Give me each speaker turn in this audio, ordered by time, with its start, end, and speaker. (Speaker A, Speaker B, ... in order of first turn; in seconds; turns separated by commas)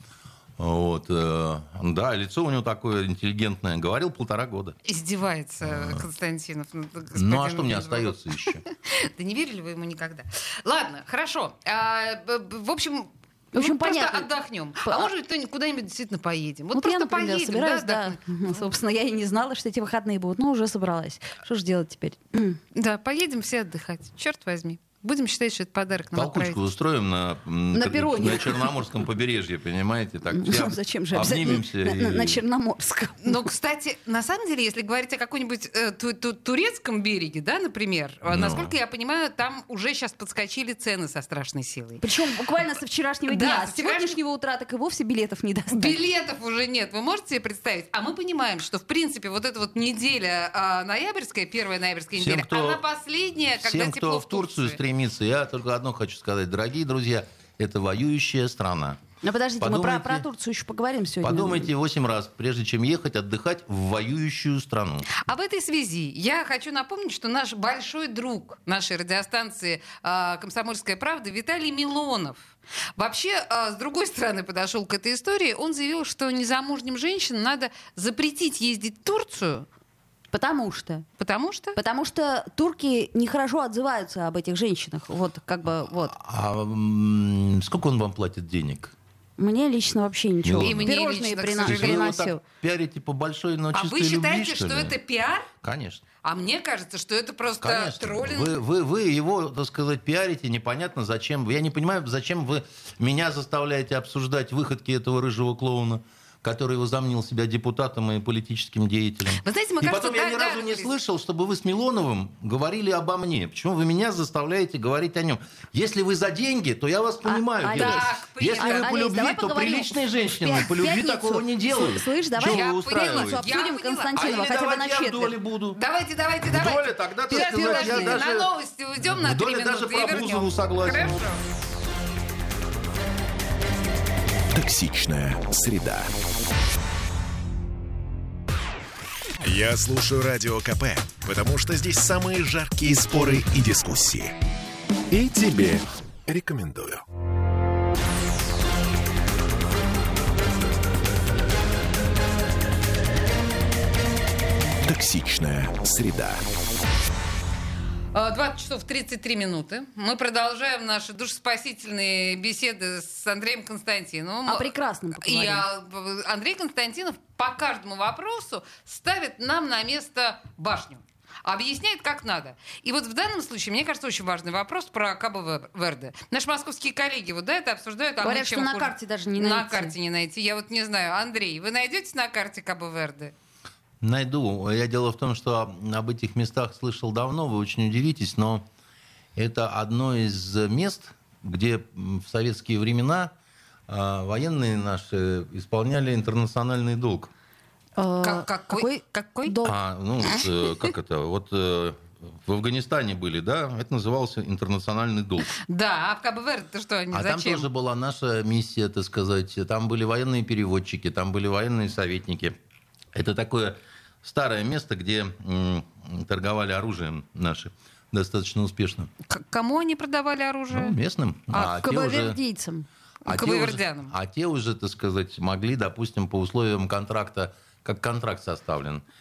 Speaker A: 0.6-4.8, Speaker B: 4.8-18.6, Speaker A: 5.6-6.1, Speaker A: 7.2-8.6, Speaker C: 13.5-14.3, Speaker C: 14.8-15.1, Speaker C: 16.8-22.6, Speaker B: 22.8-26.6, Speaker A: 26.1-32.4, Speaker C: 27.7-28.7, Speaker C: 30.3-33.4, Speaker B: 33.2-42.0, Speaker A: 38.3-38.7, Speaker C: 42.0-46.0, Speaker B: 43.3-44.2, Speaker B: 45.7-54.8, Speaker A: 52.2-52.8, Speaker A: 53.6-59.0, Speaker C: 59.2-61.7, Speaker A: 59.6-60.2, Speaker A: 61.2-65.1, Speaker B: 65.1-72.4, Speaker B: 73.0-79.7, Speaker C: 80.3-81.0, Speaker B: 81.2-81.8, Speaker C: 81.8-86.1, Speaker A: 85.9-88.9, Speaker C: 89.4-92.4, Speaker A: 90.4-91.0, Speaker B: 90.6-92.3, Speaker A: 91.7-95.0, Speaker B: 93.7-95.5, Speaker A: 95.6-96.1, Speaker B: 96.2-98.6, Speaker A: 97.6-123.5, Speaker B: 109.4-110.9, Speaker C: 117.2-125.3, Speaker B: 117.7-119.0, Speaker B: 122.4-124.4, Speaker A: 124.2-125.8, Speaker B: 125.8-131.4, Speaker A: 126.5-131.2, Speaker C: 127.3-128.2, Speaker D: 134.5-136.1, Speaker D: 139.4-144.4, Speaker D: 145.1-147.0, Speaker D: 154.8-156.4, Speaker B: 158.1-183.3, Speaker C: 164.5-165.7, Speaker C: 178.2-179.9, Speaker A: 184.0-188.6, Speaker A: 189.4-193.3, Speaker A: 193.9-197.3, Speaker C: 198.0-199.8, Speaker B: 198.2-199.6, Speaker A: 199.6-205.6, Speaker B: 205.5-207.7, Speaker A: 207.1-212.6, Speaker A: 213.1-219.1, Speaker B: 219.3-221.0, Speaker A: 220.7-222.4, Speaker B: 221.5-221.8, Speaker C: 221.6-222.9, Speaker B: 223.2-224.1, Speaker A: 223.3-229.0